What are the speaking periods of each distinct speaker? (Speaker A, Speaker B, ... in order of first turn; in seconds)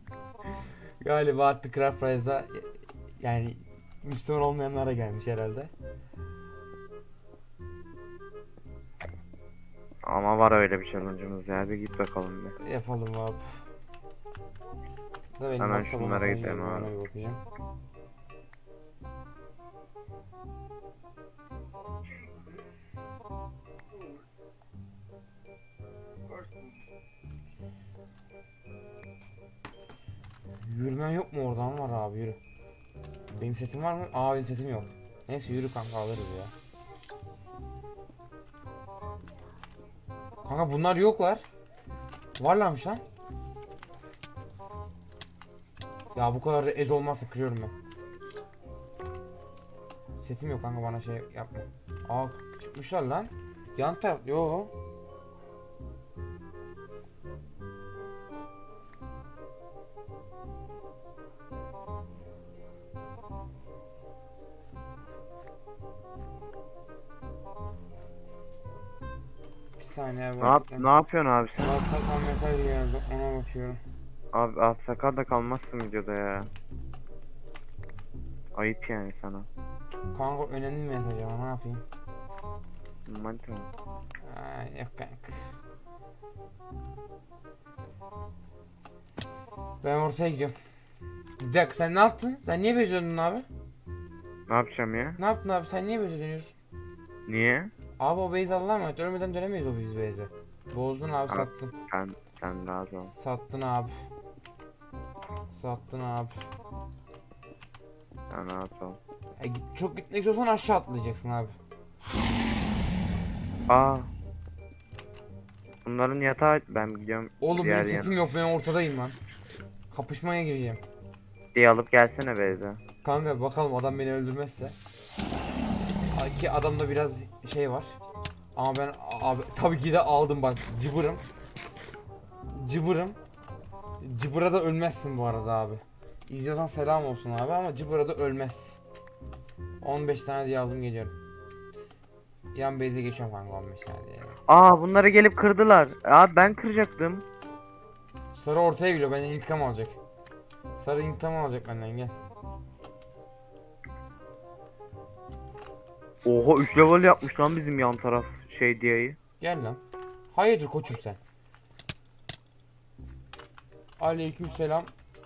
Speaker A: 1.0-5.7, 12.6-13.4, 15.4-17.4, 30.6-32.4, 33.3-36.5, 40.4-41.4, 42.4-43.0, 46.1-47.7, 50.2-54.7, 69.8-70.9, 71.6-73.8, 80.1-81.8, 84.2-85.5, 89.8-90.5, 91.4-93.5, 95.2-96.5, 98.0-101.7, 103.1-103.9, 105.5-106.4, 109.4-111.5, 117.4-119.2, 119.9-120.8, 123.0-124.8, 126.1-128.0, 128.5-131.2, 132.5-133.2, 134.0-138.8, 139.8-141.1, 142.5-144.4, 148.3-150.0, 150.8-152.2, 159.4-161.2, 164.0-164.9
Speaker B: 10.0-12.5, 15.6-16.9, 70.4-71.8, 74.3-76.5, 78.5-79.5, 83.0-83.7, 94.5-95.2, 97.3-97.7, 101.3-103.1, 108.3-109.0, 113.7-114.1, 115.8-118.1, 121.5-122.8, 144.5-147.2, 156.2-159.2